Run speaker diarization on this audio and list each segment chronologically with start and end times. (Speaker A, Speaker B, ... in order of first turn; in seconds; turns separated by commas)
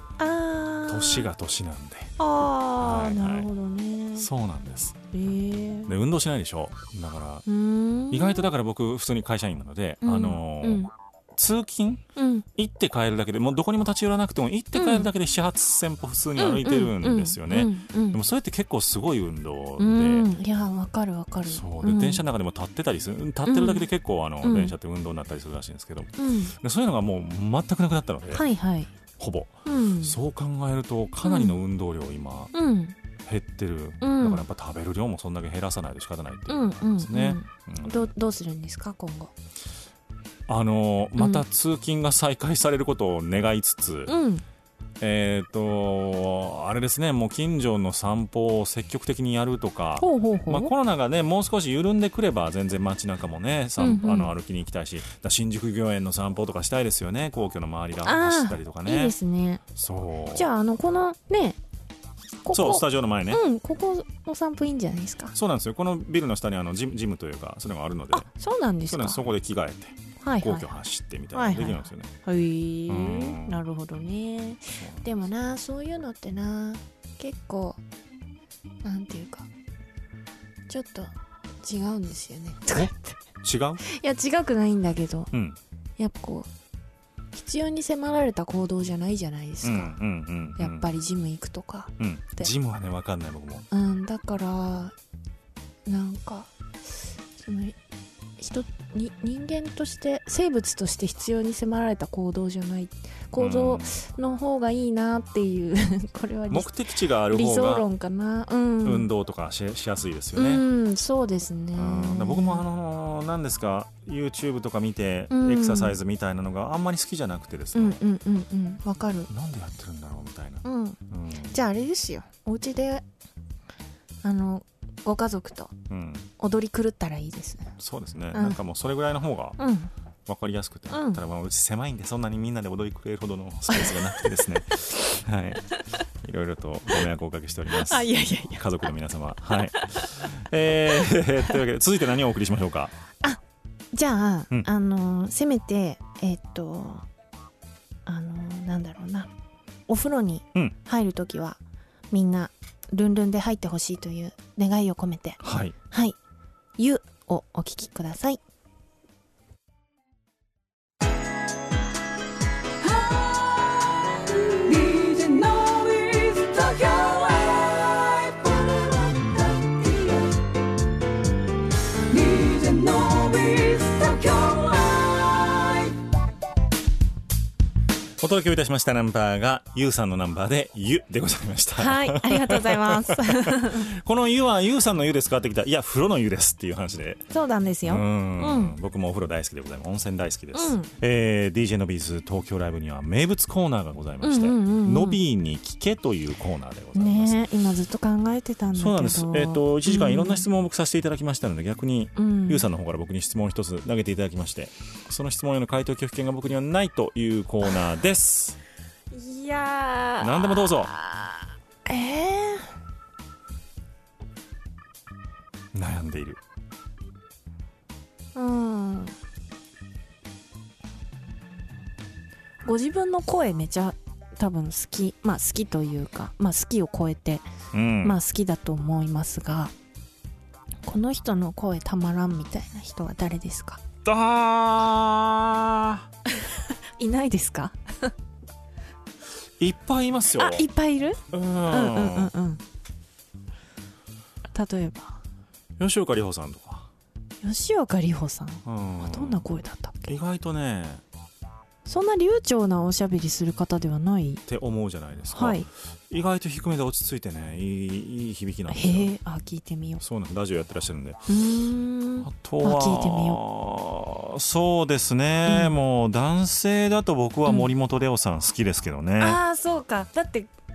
Speaker A: 0.2-1.3, Speaker B: 0.9-2.1, Speaker A: 2.2-4.3, Speaker B: 2.8-3.5, Speaker B: 4.2-5.0, Speaker A: 5.1-5.9, Speaker B: 5.9-7.5, Speaker A: 7.5-8.5, Speaker B: 8.1-12.0, Speaker A: 10.0-10.9, Speaker A: 12.2-12.5, Speaker B: 12.6-20.3, Speaker A: 14.8-15.1, Speaker A: 16.4-18.2, Speaker A: 19.8-22.2, Speaker B: 21.5-28.4, Speaker A: 23.5-23.9, Speaker A: 24.4-24.7, Speaker A: 26.2-26.5, Speaker A: 28.3-28.9, Speaker B: 29.2-32.5, Speaker A: 29.7-30.2, Speaker A: 31.2-31.6, Speaker A: 32.5-33.0, Speaker B: 33.2-38.1, Speaker A: 34.0-34.4, Speaker A: 36.5-39.3, Speaker B: 40.5-44.1, Speaker A: 41.2-41.4, Speaker A: 44.1-44.4, Speaker B: 45.0-59.1, Speaker A: 50.0-50.7, Speaker A: 53.8-54.3, Speaker A: 58.0-59.6, Speaker B: 59.8-60.5, Speaker A: 60.3-61.6, Speaker A: 62.4-65.4, Speaker B: 62.5-63.4, Speaker B: 65.3-68.3, Speaker A: 68.1-69.2, Speaker B: 68.9-72.1, Speaker A: 70.2-70.7, Speaker A: 71.3-77.8, Speaker B: 72.9-73.6, Speaker B: 74.8-75.0, Speaker A: 78.8-79.5, Speaker A: 80.7-83.2, Speaker B: 83.4-83.8, Speaker A: 83.8-85.3, Speaker B: 85.3-85.6, Speaker A: 86.0-86.5, Speaker A: 87.3-90.0, Speaker B: 89.6-90.9, Speaker A: 90.6-92.5, Speaker B: 92.0-93.7, Speaker A: 93.7-95.0, Speaker A: 95.9-96.5, Speaker A: 97.4-97.8, Speaker A: 98.4-109.1, Speaker B: 103.4-104.0, Speaker B: 106.5-107.9, Speaker B: 108.8-110.7, Speaker A: 110.4-112.7, Speaker B: 111.8-118.0, Speaker A: 115.3-116.0, Speaker A: 117.7-119.3, Speaker B: 119.3-121.6, Speaker A: 120.6-123.0, Speaker A: 124.2-125.7, Speaker B: 125.9-126.3, Speaker A: 126.4-127.8, Speaker B: 127.8-129.6, Speaker A: 128.3-128.6, Speaker A: 129.6-129.9, Speaker B: 130.3-142.9, Speaker A: 130.9-131.2, Speaker A: 133.7-134.2, Speaker A: 137.8-138.9, Speaker A: 139.5-140.1, Speaker A: 143.9-147.1, Speaker A: 148.1-149.3, Speaker A: 149.9-151.6, Speaker A: 152.1-156.2, Speaker B: 155.4-155.8, Speaker A: 156.8-158.4, Speaker C: 162.8-170.3, Speaker C: 172.1-176.0, Speaker B: 178.2-187.3, Speaker A: 181.8-183.9, Speaker A: 187.3-188.8, Speaker B: 187.9-197.5, Speaker A: 190.5-190.9, Speaker A: 194.2-195.2, Speaker A: 196.9-200.5, Speaker B: 198.8-208.6, Speaker A: 202.2-202.7, Speaker A: 209.1-212.7, Speaker B: 210.2-210.9, Speaker B: 215.7-216.4, Speaker A: 218.3-219.1, Speaker A: 222.6-227.4, Speaker B: 227.7-228.2, Speaker A: 228.0-229.7, Speaker A: 230.8-233.8, Speaker B: 234.0-236.1, Speaker A: 236.4-238.1, Speaker B: 239.6-240.7, Speaker A: 240.3-242.6, Speaker B: 241.3-242.3, Speaker A: 244.5-245.2, Speaker B: 245.8-246.9, Speaker A: 247.4-250.2, Speaker B: 248.7-249.4, Speaker B: 250.1-251.0, Speaker A: 251.8-254.4, Speaker B: 254.5-259.1, Speaker A: 255.3-255.7, Speaker A: 258.7-260.0, Speaker B: 260.0-261.3, Speaker A: 261.3-263.4, Speaker B: 262.2-269.4, Speaker A: 265.5-265.8, Speaker A: 269.2-270.5